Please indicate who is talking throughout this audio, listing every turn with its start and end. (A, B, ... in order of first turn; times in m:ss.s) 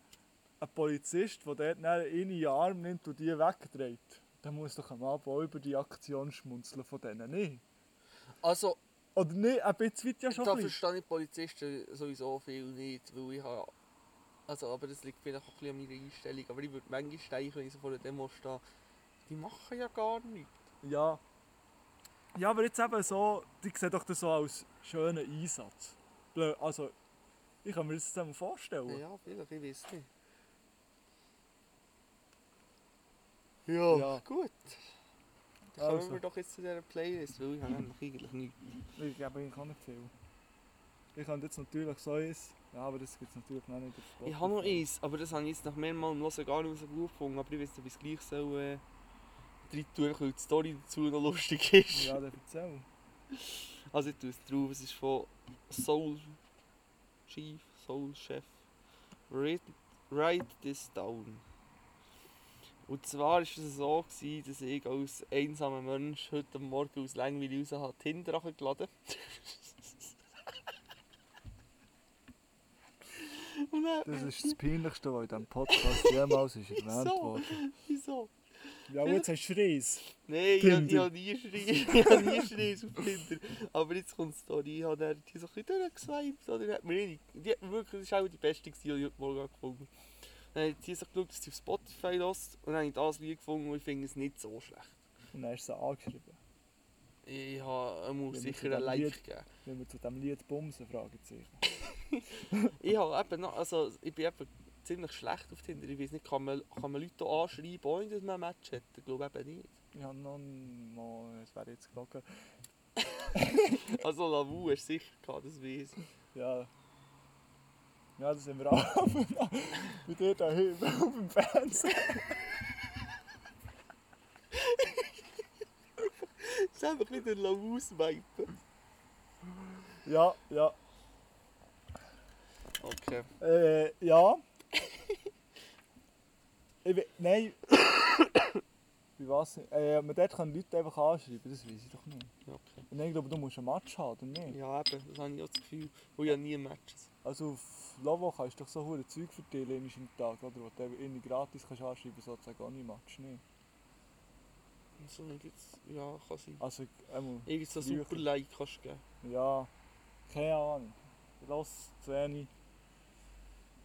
0:00.6-0:07.6 A
0:08.4-0:08.8 B
0:09.1-0:10.8 A
0:10.3-0:13.7 B
0:14.5-0:18.6 B
0:19.3-0:20.6 B
0:20.8-0:21.2 A
0:22.3-0:26.9 A
0:27.6-0:29.0 A
0:28.9-0:30.1 B
0:33.7-0:34.9 B
0:33.9-0:34.2 A
0:35.7-0:38.7 B
0:35.8-0:36.2 A
0:39.0-0:40.1 A
0:41.1-0:44.9 A
0:44.2-0:48.8 B
0:49.7-0:52.2 B
0:51.9-0:52.9 A
0:53.3-0:56.4 B
0:57.3-0:58.6 B
0:59.3-1:01.4 B
1:02.8-1:10.1 B
1:13.2-1:14.6 B
1:14.0-1:17.6 A
1:15.7-1:19.2 B
1:18.9-1:20.0 A
1:20.2-1:29.9 B
1:20.6-1:22.5 A
1:30.5-1:35.0 B
1:35.3-1:36.4 A
1:37.2-1:39.4 B
1:38.3-1:41.6 A
1:41.8-1:49.7 B
1:49.9-1:52.2 A
1:53.2-1:56.0 B
1:53.3-1:54.0 A
1:56.3-1:56.7 A
1:58.2-2:02.4 A
2:04.5-2:05.1 B
2:06.2-2:08.5 B
2:10.0-2:10.8 A
2:12.8-2:13.3 B
2:13.4-2:14.4 A
2:16.8-2:17.6 A
2:18.1-2:18.4 B
2:19.2-2:22.3 A
2:22.4-2:22.8 B
2:22.9-2:24.6 A
2:24.5-2:27.1 B
2:27.2-2:33.4 A
2:35.0-2:36.6 B
2:36.6-2:38.3 A
2:37.4-2:39.0 B
2:39.2-2:39.7 A
2:40.3-2:42.5 A